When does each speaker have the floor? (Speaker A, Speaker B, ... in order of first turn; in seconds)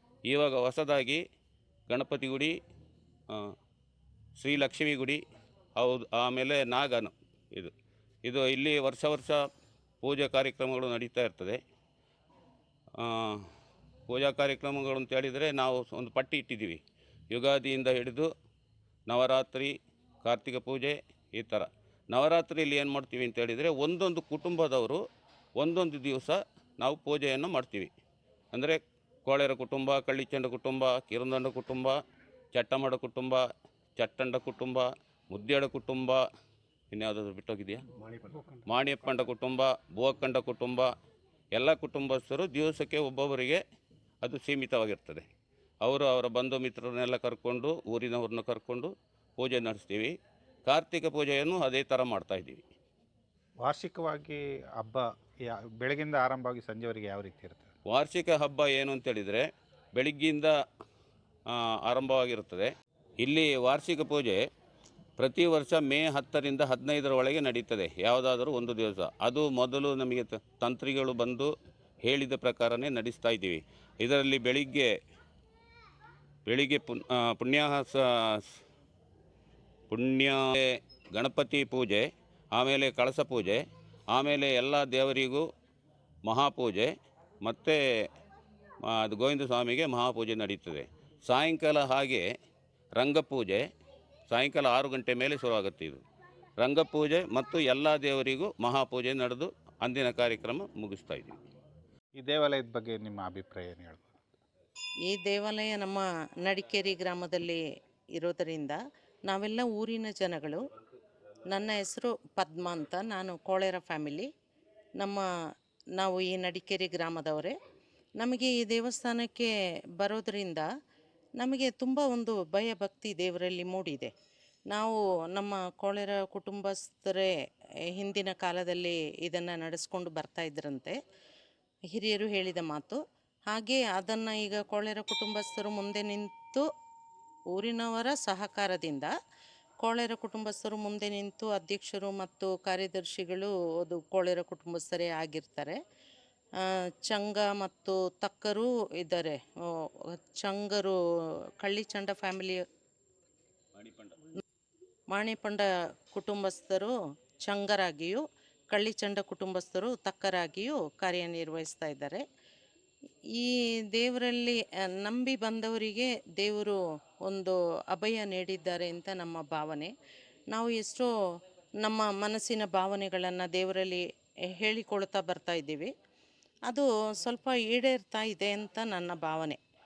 Speaker A: 0.3-1.2, 1.9-2.5, 4.4-5.2, 5.8-7.7, 8.2-9.4, 10.0-11.6, 13.0-13.4, 14.1-18.3, 19.1-25.0, 25.6-27.9, 28.5-32.0, 32.5-33.4, 34.0-36.2, 36.9-37.8, 38.7-40.9, 41.5-43.6, 44.2-45.3, 45.8-50.1, 50.7-52.6, 57.9-60.5, 61.5-64.4, 65.2-71.5, 72.0-74.9, 76.5-78.5, 79.9-85.5, 86.3-86.9, 87.4-87.8, 88.8-92.3, 93.0-93.7, 94.3-96.0, 96.6-101.4, 153.8-154.1
Speaker B: 53.6-57.7, 102.2-104.3
Speaker C: 105.1-107.6, 108.2-110.6, 111.5-114.3, 115.0-115.2, 116.0-117.5, 118.2-119.5, 120.0-120.7, 121.4-124.1, 124.7-127.3, 128.0-130.9, 131.9-133.0, 133.5-136.7, 137.5-139.1, 139.8-145.8, 147.1-149.4, 150.2-150.9, 151.6-152.6, 155.1-156.9, 157.4-162.2, 163.4-166.8, 167.3-169.9, 170.5-171.1, 171.8-174.0, 174.6-175.9, 176.7-179.6